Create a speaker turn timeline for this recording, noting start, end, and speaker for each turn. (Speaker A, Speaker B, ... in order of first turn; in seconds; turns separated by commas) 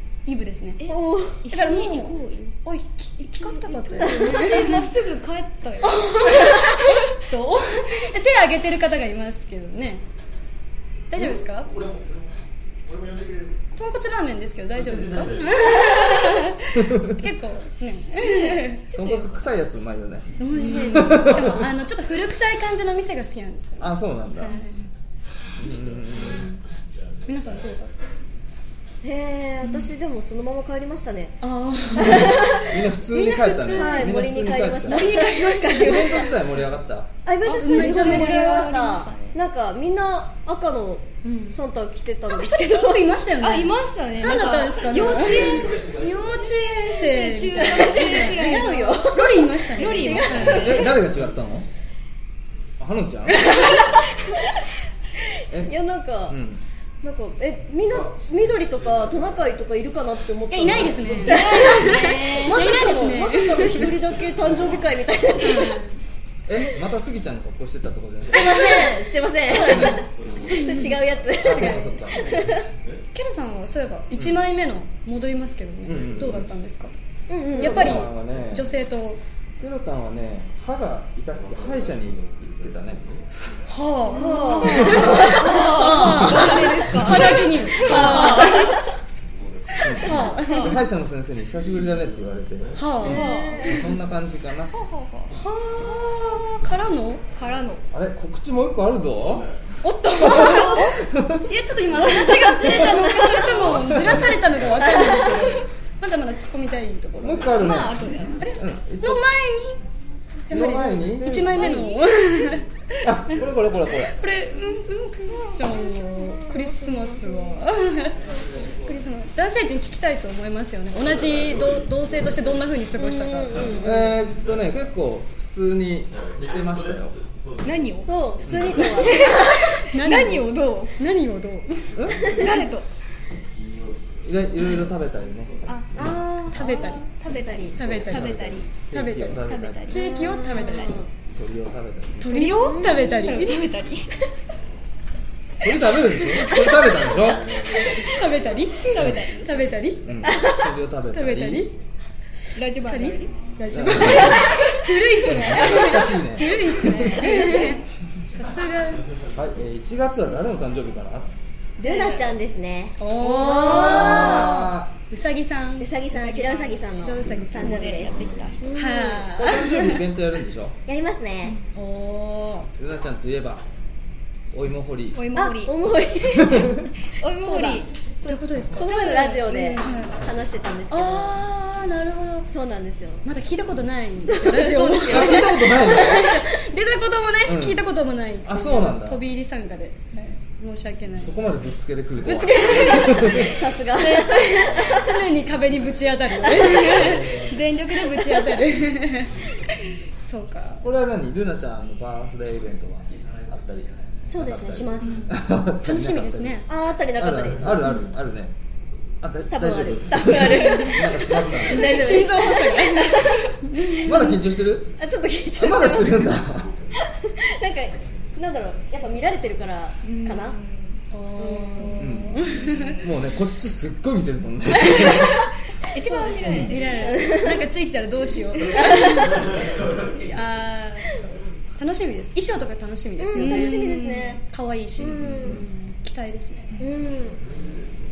Speaker A: 0.2-0.8, Speaker B: 0.8-2.6, Speaker C: 0.9-1.4, Speaker A: 1.5-4.9, Speaker B: 3.2-6.8, Speaker A: 5.8-10.0, Speaker A: 11.1-11.8, Speaker A: 13.8-19.2, Speaker D: 18.9-21.7, Speaker A: 20.4-24.7, Speaker D: 23.8-24.6, Speaker D: 25.6-26.5, Speaker A: 26.3-26.6, Speaker A: 27.3-27.9, Speaker C: 29.0-31.4, Speaker A: 31.4-34.1, Speaker C: 31.9-32.8, Speaker D: 32.7-35.1, Speaker C: 33.6-36.4, Speaker A: 34.9-36.3, Speaker D: 35.8-37.1, Speaker C: 37.2-43.2, Speaker A: 37.5-38.7, Speaker B: 37.6-39.4, Speaker A: 41.2-41.6, Speaker A: 42.3-50.8, Speaker B: 43.4-45.9, Speaker B: 46.9-49.0, Speaker C: 47.5-50.9, Speaker B: 49.8-50.6, Speaker D: 50.5-51.7, Speaker D: 52.8-53.5, Speaker A: 53.4-53.9, Speaker C: 55.6-56.4, Speaker D: 56.3-56.6, Speaker C: 57.0-65.8, Speaker A: 60.5-63.9, Speaker B: 61.2-62.7, Speaker A: 65.4-66.0, Speaker D: 66.5-68.7, Speaker C: 68.3-72.7, Speaker A: 68.3-69.0, Speaker A: 69.5-72.0, Speaker D: 69.6-70.6, Speaker D: 71.4-72.4, Speaker A: 73.1-76.9, Speaker D: 75.9-76.5, Speaker C: 77.3-78.1, Speaker A: 77.6-79.2, Speaker D: 77.6-78.7, Speaker D: 79.6-83.0, Speaker A: 83.7-88.8, Speaker C: 84.1-86.8, Speaker B: 84.1-88.7, Speaker D: 84.9-85.2, Speaker C: 87.8-88.8, Speaker D: 89.8-92.8, Speaker A: 89.8-90.8, Speaker B: 90.2-90.8, Speaker A: 92.7-93.4, Speaker B: 93.0-93.8, Speaker C: 93.0-93.8, Speaker D: 93.6-94.7, Speaker B: 94.7-95.3, Speaker A: 95.3-97.2, Speaker B: 97.4-97.8, Speaker D: 97.9-99.5, Speaker A: 99.8-107.7, Speaker B: 100.2-101.0, Speaker D: 100.2-101.5, Speaker B: 102.0-103.5, Speaker D: 102.7-104.4, Speaker C: 104.9-105.3, Speaker D: 107.2-109.2, Speaker B: 107.4-108.5, Speaker A: 109.0-109.8, Speaker A: 110.5-112.7, Speaker D: 110.5-111.5, Speaker C: 110.5-112.0, Speaker D: 113.0-114.2, Speaker A: 114.1-118.2, Speaker C: 116.0-117.4, Speaker A: 118.8-123.8, Speaker C: 123.0-124.2, Speaker D: 123.8-127.2, Speaker B: 127.6-128.1, Speaker C: 128.1-129.7, Speaker D: 128.5-128.8, Speaker B: 128.8-131.0, Speaker A: 129.8-131.9, Speaker D: 132.0-132.2, Speaker C: 132.2-132.6, Speaker B: 132.3-132.9, Speaker D: 134.2-136.2, Speaker B: 135.7-138.7, Speaker C: 136.0-136.6, Speaker A: 136.5-137.1, Speaker C: 137.3-137.8, Speaker A: 137.8-141.0, Speaker D: 138.0-140.0, Speaker B: 139.4-140.0, Speaker C: 139.9-141.1, Speaker D: 141.3-142.5, Speaker A: 142.2-143.7, Speaker B: 142.3-144.1, Speaker C: 142.5-143.1, Speaker D: 145.6-147.5, Speaker A: 146.3-146.7, Speaker A: 147.8-150.1, Speaker B: 148.9-149.4, Speaker D: 149.0-149.3, Speaker D: 150.1-151.7, Speaker C: 150.2-150.6, Speaker A: 151.1-151.8, Speaker B: 152.6-153.3, Speaker A: 152.8-159.0, Speaker D: 153.7-157.3, Speaker B: 157.1-157.8, Speaker D: 159.3-161.4, Speaker B: 161.8-162.3, Speaker C: 161.8-164.7, Speaker A: 163.0-165.9, Speaker B: 163.8-164.7, Speaker D: 163.9-164.9, Speaker C: 165.8-169.3, Speaker B: 166.1-168.8, Speaker A: 166.9-168.0, Speaker A: 168.7-170.0, Speaker D: 169.4-170.8, Speaker C: 170.9-171.6, Speaker A: 171.8-172.7, Speaker D: 172.8-173.6, Speaker D: 174.5-175.3, Speaker B: 175.0-175.8, Speaker C: 175.3-176.8, Speaker D: 176.3-176.9, Speaker B: 177.2-177.9, Speaker C: 177.4-181.4, Speaker A: 178.3-180.1, Speaker B: 178.8-180.1, Speaker A: 180.9-182.5, Speaker C: 182.5-183.2, Speaker A: 183.2-191.3, Speaker C: 184.2-186.5, Speaker D: 185.1-186.3, Speaker D: 187.5-187.8, Speaker D: 188.4-189.2, Speaker D: 191.2-193.6, Speaker C: 192.2-194.9, Speaker A: 192.4-193.3, Speaker A: 194.0-199.3, Speaker C: 196.4-197.0, Speaker A: 200.2-200.8, Speaker D: 200.8-206.7, Speaker C: 204.3-205.3, Speaker A: 205.8-206.7, Speaker C: 206.7-207.7, Speaker D: 207.2-208.5, Speaker D: 209.2-211.9, Speaker C: 209.5-213.4, Speaker A: 211.7-214.1, Speaker D: 214.0-214.9, Speaker C: 215.0-216.3, Speaker D: 215.6-216.7, Speaker C: 217.0-220.6, Speaker B: 220.0-221.0, Speaker A: 221.1-223.0, Speaker C: 221.4-222.0, Speaker D: 222.0-222.4, Speaker B: 222.6-223.0, Speaker D: 223.0-225.3, Speaker A: 224.8-225.2, Speaker B: 225.9-227.2, Speaker D: 226.4-226.8, Speaker A: 226.7-229.4, Speaker C: 227.0-227.6, Speaker C: 228.8-229.3, Speaker A: 230.1-236.7, Speaker C: 233.2-234.4, Speaker B: 233.3-234.4, Speaker C: 235.0-235.6, Speaker D: 235.3-235.6, Speaker C: 236.8-237.4